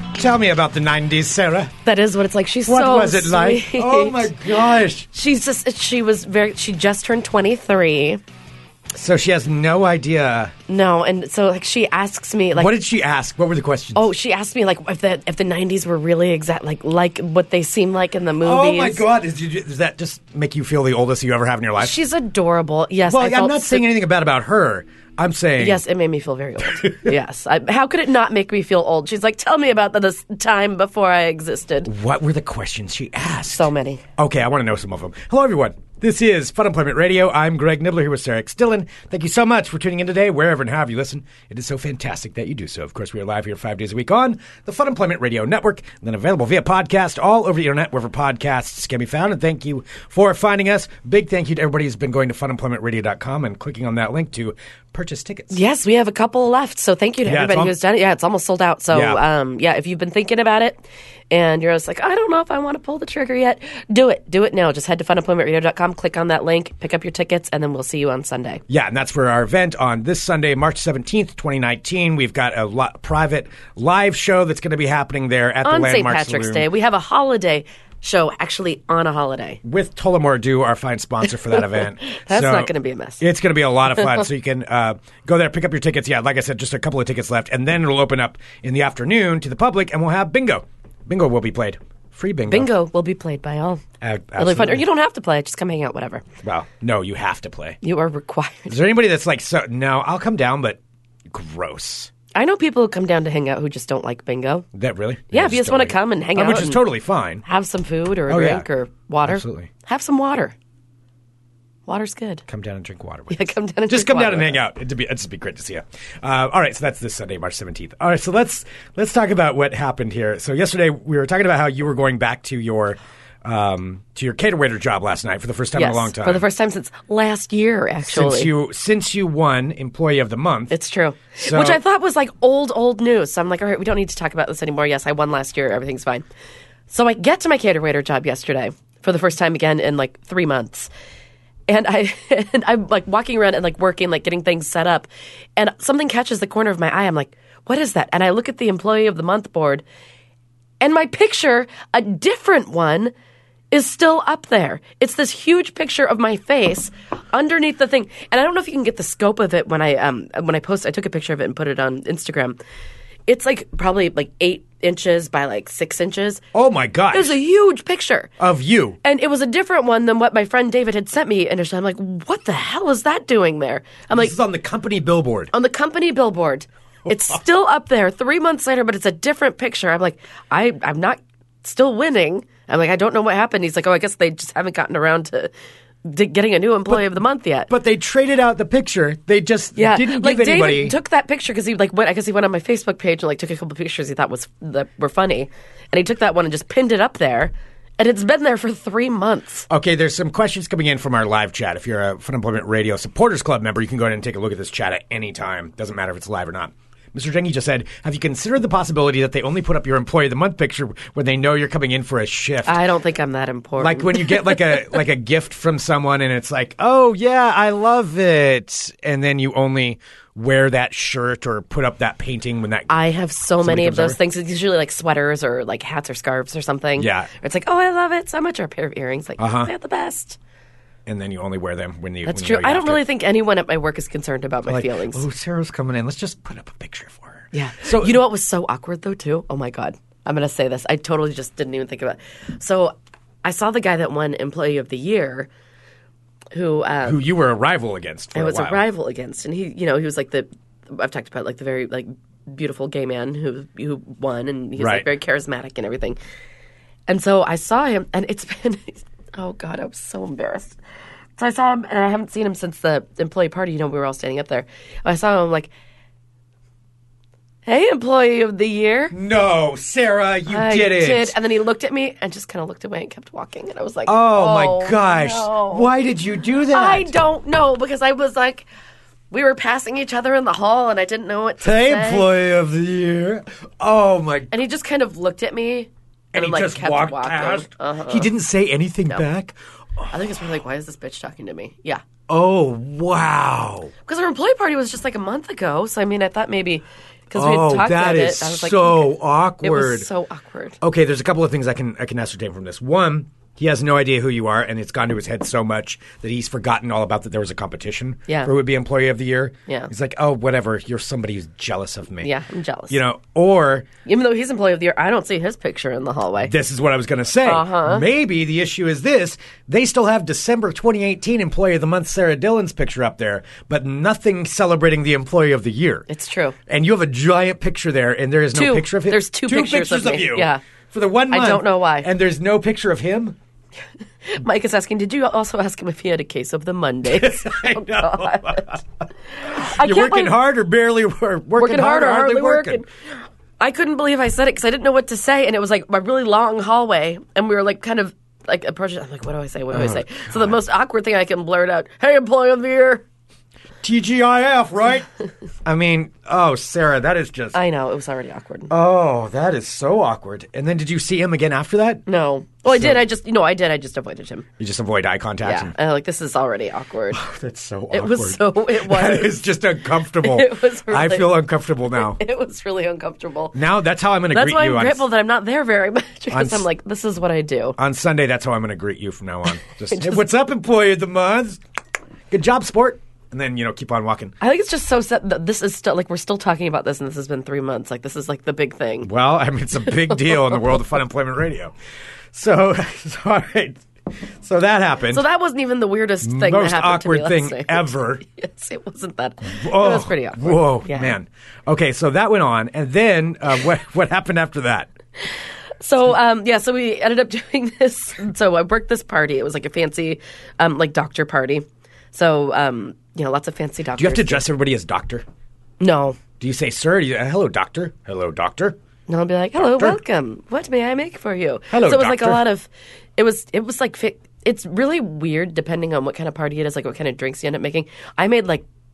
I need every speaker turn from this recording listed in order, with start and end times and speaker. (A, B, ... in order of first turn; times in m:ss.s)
0:00.1-0:01.7 A
0:01.8-0:08.2 B
0:02.6-0:05.1 A
0:08.9-0:10.5 A
0:10.7-0:12.7 B
0:12.5-0:14.0 A
0:13.9-0:19.0 B
0:18.4-0:22.0 A
0:21.8-0:23.9 B
0:23.1-0:25.8 A
0:25.6-0:31.9 B
0:26.7-0:27.1 A
0:31.8-0:55.6 A
0:33.5-0:34.0 B
0:55.5-1:08.6 B
0:57.2-0:57.7 A
0:58.9-0:59.2 A
1:08.7-1:16.7 A
1:15.6-1:19.6 B
1:19.6-1:32.7 A
1:21.7-1:23.2 B
1:32.5-1:33.8 B
1:34.0-1:34.8 A
1:34.4-1:36.3 B
1:36.4-1:37.8 A
1:37.8-1:38.8 B
1:38.7-1:42.1 A
1:42.3-1:44.7 B
1:44.7-1:47.4 A
1:45.3-1:46.8 B
1:47.4-1:50.6 B
1:48.3-1:48.6 A
1:49.2-1:49.7 A
1:51.8-1:52.4 B
1:52.5-2:06.4 A
1:53.3-1:54.6 B
2:05.7-2:08.5 B
2:08.0-2:10.7 A
2:10.7-2:16.2 B
2:11.4-2:11.8 A
2:16.9-2:20.9 B
2:21.7-2:29.8 B
2:30.8-2:33.1 B
2:33.7-2:42.6 B
2:43.3-2:46.4 B
2:46.5-2:47.4 A
2:47.1-2:48.3 B
2:48.4-2:49.0 A
2:49.0-2:54.3 B
2:54.1-2:55.5 A
2:55.5-3:05.5 B
3:06.0-3:07.7 B
3:06.9-3:11.0 A
3:09.8-3:19.7 B
3:19.7-3:32.8 A
3:32.6-3:34.9 B
3:33.8-3:42.9 A
3:42.9-3:50.4 B
3:43.6-3:44.2 A
3:47.0-3:47.3 A
3:49.4-3:49.7 A
3:51.0-3:53.0 A
3:52.2-3:55.2 B
3:54.6-3:58.2 A
3:57.5-4:05.5 B
4:06.5-4:07.2 B
4:07.0-4:08.8 A
4:08.3-4:16.2 B
4:14.8-4:15.1 A
4:17.1-4:20.8 B
4:21.4-4:25.7 B
4:27.6-4:29.1 B
4:29.1-4:31.4 A
4:30.5-4:35.9 B
4:34.0-4:37.1 A
4:36.7-4:38.7 B
4:39.3-4:42.3 B
4:41.6-4:44.5 A
4:44.5-4:48.3 B
4:46.3-4:50.1 A
4:50.1-4:52.0 B
4:52.3-4:53.9 A
4:54.0-5:00.8 B
4:57.3-5:00.1 A
5:00.8-5:12.3 A
5:12.2-5:13.0 B
5:12.9-5:13.9 A
5:14.0-5:16.5 B
5:16.4-5:26.1 A
5:17.4-5:18.0 B
5:26.1-5:26.6 B
5:26.7-5:33.4 A
5:28.5-5:30.6 B
5:31.3-5:32.1 B
5:34.2-5:38.8 B
5:37.1-5:38.8 A
5:39.4-5:40.4 B
5:39.4-5:42.8 A
5:41.6-5:42.9 B
5:43.6-5:53.0 B
5:49.7-5:50.5 A
5:53.8-5:55.1 A
5:55.6-5:57.6 A
5:57.5-5:58.7 B
5:58.7-6:02.0 A
6:02.0-6:04.5 B
6:02.7-6:03.0 A
6:04.6-6:05.7 A
6:05.4-6:07.2 B
6:07.1-6:12.2 A
6:07.9-6:09.4 B
6:10.2-6:11.4 B
6:12.0-6:13.6 B
6:13.5-6:15.0 A
6:14.3-6:17.8 B
6:16.3-6:16.7 A
6:17.8-6:21.6 A
6:19.9-6:20.2 B
6:22.3-6:24.3 A
6:24.4-6:29.1 B
6:29.0-6:31.7 A
6:32.3-6:35.2 A
6:35.1-6:41.1 B
6:36.2-6:38.2 A
6:39.5-6:44.9 A
6:45.8-6:54.4 B
6:54.0-6:55.2 A
6:55.8-6:56.2 B
6:56.4-6:58.8 A
6:59.1-7:08.6 B
6:59.6-7:00.0 A
7:01.7-7:02.4 A